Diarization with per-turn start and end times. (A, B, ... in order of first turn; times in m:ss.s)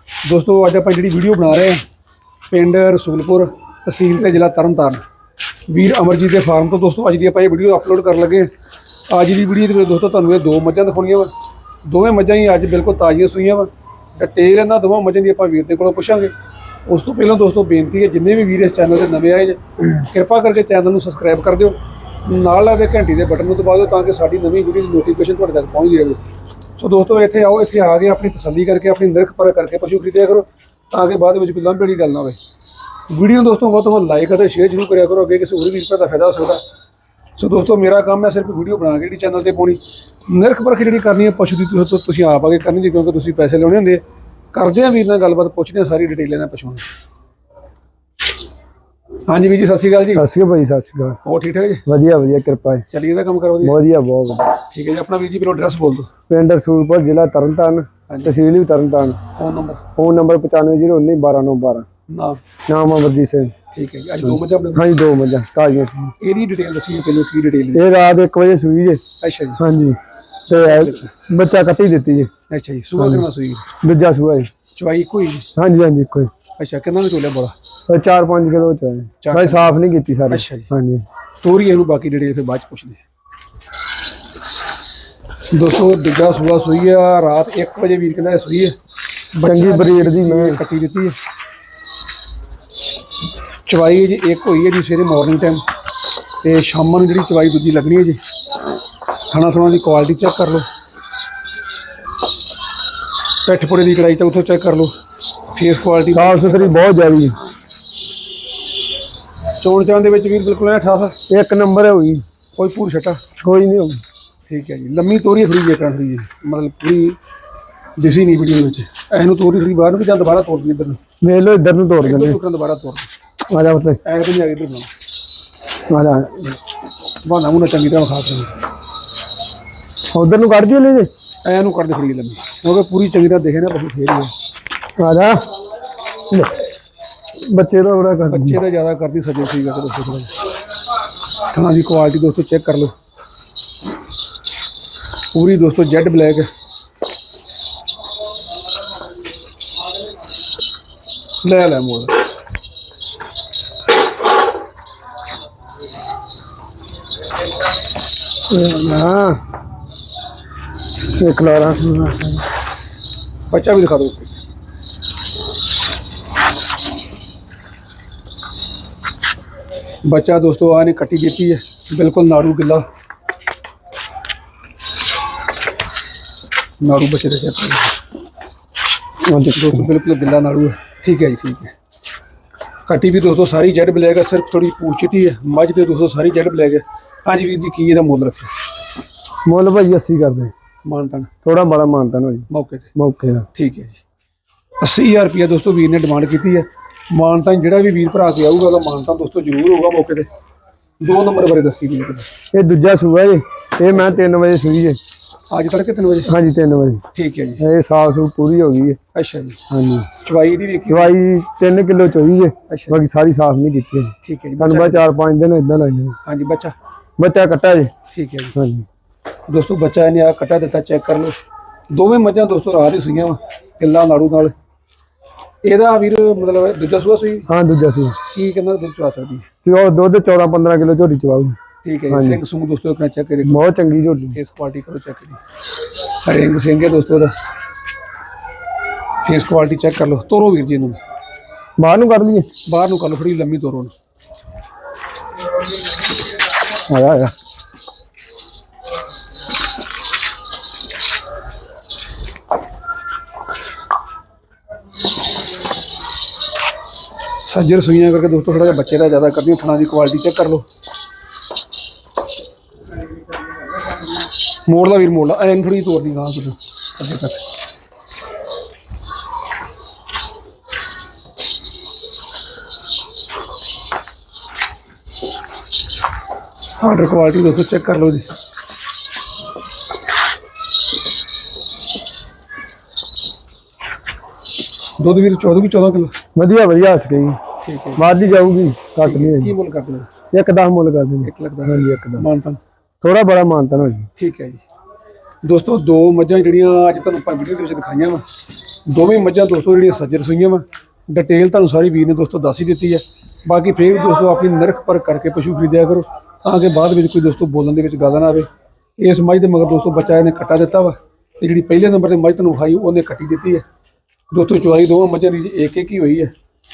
0:00.2-0:01.8 A
0:02.5-0:05.0 A
0:05.7-0:08.5 A
0:09.1-0:11.3 A
0:11.8-0:16.3 A
0:16.8-0:26.2 A
0:26.8-0:32.4 A
0:33.1-0:36.6 A
0:37.4-0:44.0 A
0:44.5-0:46.8 A
0:49.3-0:50.2 A
0:50.1-0:51.2 B
0:51.2-0:51.8 A
0:51.8-0:52.8 B
0:52.9-0:53.8 A
0:53.6-0:54.5 B
0:54.6-0:56.1 A
0:56.3-0:59.2 B
0:58.1-0:58.3 A
0:59.4-0:59.8 A
1:00.0-1:01.8 B
1:02.1-1:02.4 A
1:02.7-1:03.5 B
1:03.7-1:04.9 A
1:04.2-1:06.1 B
1:06.2-1:07.8 A
1:07.7-1:09.0 B
1:09.2-1:09.6 A
1:09.6-1:12.3 B
1:10.5-1:11.1 A
1:12.5-1:13.7 A
1:13.0-1:13.2 B
1:13.8-1:14.5 B
1:14.8-1:15.5 A
1:15.6-1:16.3 B
1:16.6-1:17.5 A
1:17.9-1:21.0 B
1:19.2-1:20.7 A
1:21.4-1:23.0 A
1:25.5-1:28.8 A
1:29.3-1:31.2 A
1:29.4-1:30.6 B
1:33.6-1:35.6 A
1:36.4-1:38.2 A
1:39.3-1:40.7 A
1:43.4-1:44.9 A
1:45.5-1:47.0 A
1:46.1-1:47.4 B
1:49.6-1:51.2 A
1:51.3-1:52.2 B
1:52.5-1:53.2 A
1:53.4-1:54.0 B
1:54.5-1:57.2 A
1:58.0-2:01.0 A
2:01.2-2:02.4 B
2:02.0-2:03.1 A
2:03.5-2:04.0 B
2:04.0-2:04.9 A
2:05.9-2:06.6 B
2:07.2-2:08.5 A
2:10.1-2:11.1 B
2:11.4-2:14.3 A
2:15.0-2:15.5 B
2:17.4-2:18.6 B
2:18.3-2:20.3 A
2:21.5-2:22.9 A
2:25.3-2:26.5 A
2:31.4-2:32.2 A
2:38.5-2:39.4 B
2:41.2-2:42.4 B
2:43.5-2:44.3 A
2:50.0-2:52.8 A
2:56.8-2:58.0 A
2:59.2-2:59.9 B
2:59.5-3:01.7 A
3:02.9-3:08.5 A
3:09.4-3:10.5 B
3:10.8-3:11.3 A
3:11.4-3:13.5 B
3:12.5-3:12.9 A
3:13.5-3:14.0 A
3:14.8-3:20.3 A
3:21.0-3:22.2 A
3:22.5-3:25.0 B
3:23.9-3:24.2 A
3:25.5-3:26.3 A
3:26.3-3:27.0 B
3:27.1-3:27.6 A
3:27.6-3:29.0 B
3:29.1-3:29.6 A
3:29.7-3:30.1 B
3:30.2-3:31.1 A
3:30.9-3:36.2 B
3:32.7-3:33.0 A
3:34.2-3:35.1 A
3:36.2-3:36.7 A
3:37.2-3:37.9 B
3:38.1-3:38.6 A
3:38.5-3:38.8 B
3:39.5-3:41.4 A
3:41.9-3:44.5 A
3:45.6-3:47.5 A
3:47.5-3:48.2 B
3:48.3-3:49.5 A
3:49.6-3:51.6 B
3:51.8-3:53.6 A
3:52.1-3:52.4 B
3:53.4-3:54.4 B
3:54.3-3:55.4 A
3:56.2-3:57.3 A
3:59.2-4:01.0 A
4:01.8-4:02.5 B
4:02.6-4:03.9 A
4:06.9-4:07.3 B
4:17.4-4:20.6 A
4:24.6-4:27.4 A
4:36.8-4:38.3 A
4:45.0-4:46.1 A
4:46.3-4:47.4 B
4:47.6-4:48.0 A
4:48.0-4:49.5 B
4:49.0-4:50.1 A
4:50.3-4:52.2 B
4:51.2-4:52.6 A
4:53.0-4:54.1 B
4:54.2-4:54.6 A
4:55.4-4:58.2 A
4:58.9-5:13.6 A
5:14.3-5:16.3 A